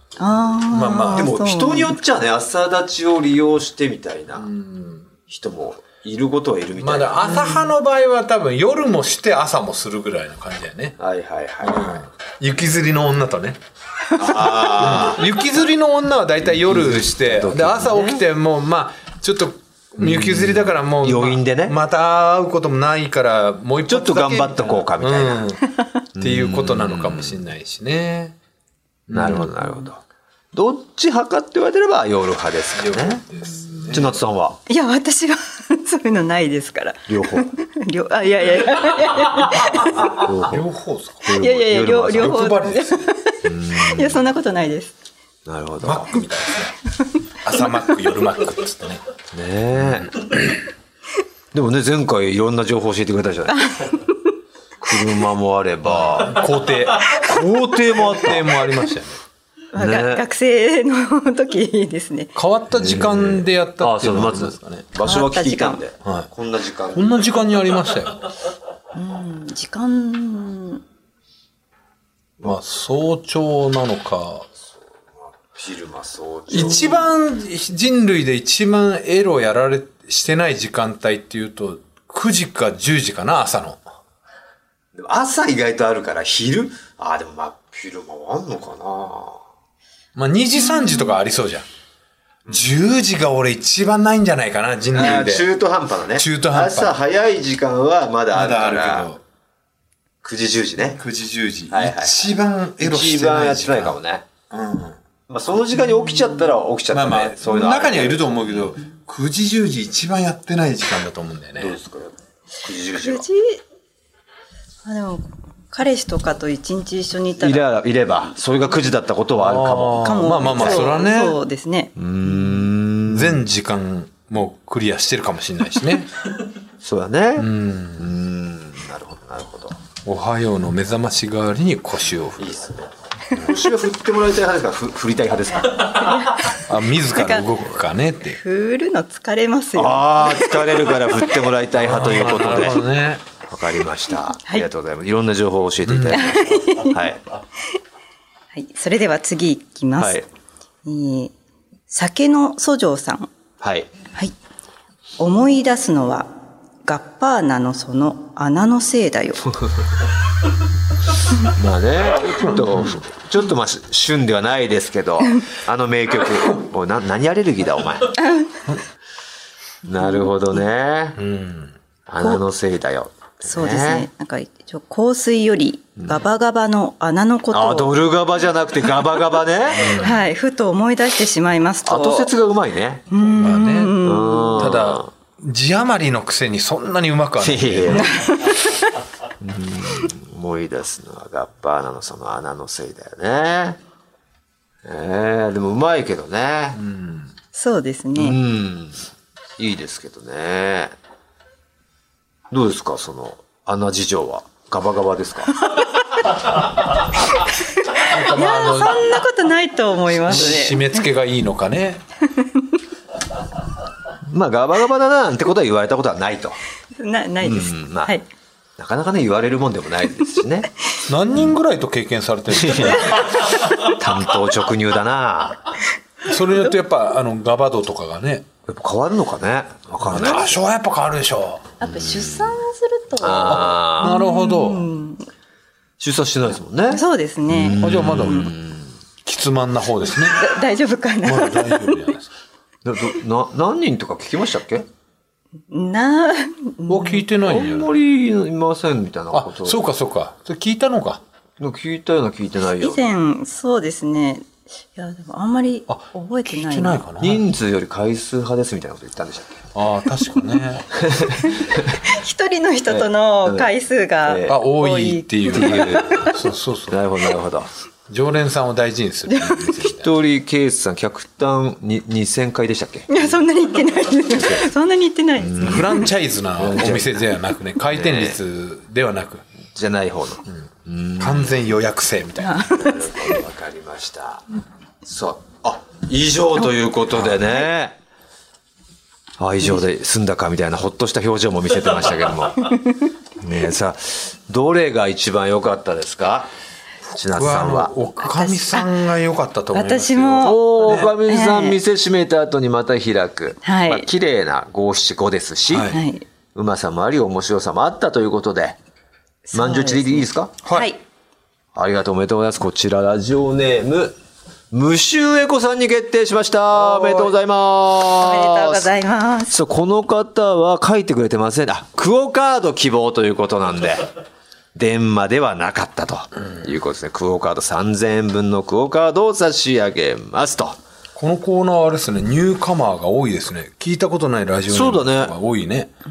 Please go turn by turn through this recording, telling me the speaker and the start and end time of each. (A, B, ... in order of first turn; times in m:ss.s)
0:00.2-0:02.0 A
0:00.7-0:01.3 B
0:01.1-0:04.5 C
0:04.4-0:05.1 B
0:05.3-0:07.3 C
0:06.8-0:11.0 B
0:07.2-0:07.7 A
0:11.0-0:12.0 C
0:11.6-0:13.6 B
0:14.2-0:15.2 C
0:14.2-0:28.4 B
0:16.4-0:18.2 C
0:20.0-0:21.8 C
0:23.9-0:25.5 C
0:26.2-0:27.4 C
0:29.1-0:29.5 B
0:29.1-0:30.0 C
0:30.5-0:33.2 C
0:32.8-0:34.2 B
0:33.9-0:34.6 C
0:34.7-0:40.2 A
0:37.1-0:37.5 C
0:39.4-0:41.4 B
0:39.9-0:40.6 C
0:41.2-0:42.4 C
0:41.4-0:44.9 A
0:42.0-0:43.2 B
0:43.4-0:44.2 C
0:45.5-0:46.2 C
0:45.8-0:49.0 B
0:49.3-0:50.2 C
0:49.8-0:50.6 B
0:51.5-0:53.9 C
0:53.5-0:54.3 A
0:54.8-0:56.6 C
0:55.8-0:59.2 B
0:57.1-0:58.5 C
0:59.7-1:02.3 A
0:59.8-1:00.2 C
1:02.4-1:04.9 B
1:02.7-1:07.2 C
1:05.0-1:05.8 A
1:06.0-1:06.3 B
1:06.9-1:08.3 B
1:08.9-1:10.8 A
1:12.4-1:14.5 B
1:15.3-1:17.1 C
1:16.5-1:23.8 B
1:24.9-1:29.4 C
1:30.2-1:31.7 B
1:30.7-1:31.1 A
1:32.5-1:35.5 B
1:34.9-1:39.1 C
1:36.2-1:37.0 B
1:38.3-1:39.2 B
1:40.2-1:41.0 C
1:41.0-1:44.0 B
1:41.7-1:42.3 C
1:42.8-1:44.3 C
1:44.5-1:45.0 B
1:45.3-1:48.8 C
1:46.9-1:51.8 B
1:51.6-1:53.3 C
1:52.9-1:53.6 A
1:54.8-1:57.7 A
1:57.4-2:01.0 C
1:59.4-2:01.4 B
2:00.0-2:01.9 A
2:02.0-2:03.4 C
2:03.1-2:06.1 B
2:06.8-2:09.8 C
2:07.4-2:08.1 B
2:10.0-2:12.6 B
2:12.4-2:16.1 C
2:16.1-2:16.4 A
2:16.5-2:18.4 B
2:17.1-2:17.5 A
2:18.3-2:21.3 A
2:19.8-2:22.9 C
2:21.7-2:23.2 B
2:23.5-2:27.2 C
2:25.9-2:26.4 B
2:26.2-2:27.0 A
2:28.5-2:30.2 A
2:30.0-2:30.2 C
2:30.8-2:31.3 A
2:31.9-2:33.3 A
2:33.6-2:33.9 C
2:35.2-2:36.3 A
2:36.8-2:39.6 A
2:41.4-2:48.2 C
2:42.4-2:43.0 B
2:48.2-2:48.7 A
2:49.9-2:51.2 C
2:51.2-2:51.8 B
2:52.1-2:54.1 C
2:53.5-2:58.0 A
2:57.5-3:00.1 C
2:59.8-3:00.2 B
2:59.8-3:02.3 A
3:01.8-3:03.0 C
3:03.1-3:04.7 A
3:03.4-3:04.0 B
3:04.0-3:05.1 C
3:04.6-3:08.2 B
3:07.4-3:08.2 C
3:07.9-3:08.7 A
3:09.4-3:13.8 C
3:14.8-3:16.8 C
3:16.8-3:17.3 B
3:17.5-3:18.4 A
3:18.2-3:21.0 C
3:22.5-3:25.6 C
3:25.7-3:26.6 A
3:27.3-3:31.1 A
3:28.0-3:29.2 B
3:30.2-3:32.0 B
3:32.3-3:32.8 A
3:34.3-3:36.6 C
3:37.0-3:38.2 A
3:37.4-3:38.2 C
3:38.8-3:40.7 C
3:41.1-3:43.5 B
3:42.5-3:45.7 C
3:46.2-3:48.5 B
3:48.7-3:50.6 C
3:50.0-3:51.7 B
3:51.8-3:55.3 A
3:51.8-3:52.5 C
3:53.2-3:54.2 C
3:54.0-3:54.9 B
3:56.0-3:58.9 C
3:56.9-3:58.5 A
3:57.8-3:58.5 B
3:59.2-4:00.5 B
4:00.1-4:02.0 A
4:01.2-4:02.3 B
4:02.8-4:04.9 C
4:05.7-4:07.3 A
4:06.9-4:07.9 B
4:07.4-4:09.8 C
4:09.3-4:11.2 B
4:11.6-4:13.0 C
4:12.8-4:17.0 A
4:15.9-4:17.4 B
4:17.2-4:19.7 C
4:19.7-4:20.9 B
4:21.0-4:22.0 C
4:21.4-4:26.4 A
4:22.9-4:23.7 C
4:24.2-4:24.6 C
4:24.5-4:27.0 B
4:25.5-4:26.4 C
4:26.9-4:27.7 C
4:28.1-4:30.1 B
4:29.3-4:29.6 A
4:29.8-4:33.4 C
4:33.1-4:36.1 A
4:34.3-4:34.7 C
4:35.4-4:37.4 C
4:35.6-4:39.4 B
4:37.9-4:38.4 C
4:39.7-4:41.6 C
4:41.2-4:42.7 B
4:42.4-4:43.4 A
4:42.7-4:44.5 C
4:45.0-4:48.0 C
4:47.1-4:47.4 B
4:49.4-4:52.8 C
4:53.4-4:56.5 C
4:57.1-4:58.0 C
4:57.1-5:01.1 B
4:58.2-4:59.0 A
4:59.7-5:01.8 A
5:00.4-5:06.0 C
5:03.6-5:04.1 A
5:05.7-5:06.0 B
5:05.9-5:06.2 A
5:06.6-5:08.8 C
5:09.5-5:11.0 A
5:09.5-5:10.5 C
5:10.6-5:10.9 B
5:11.8-5:14.2 C
5:14.7-5:18.9 C
5:16.7-5:17.3 B
5:18.2-5:19.6 A
5:19.5-5:24.1 C
5:24.8-5:30.8 C
5:31.2-5:35.9 B
5:34.7-5:35.3 C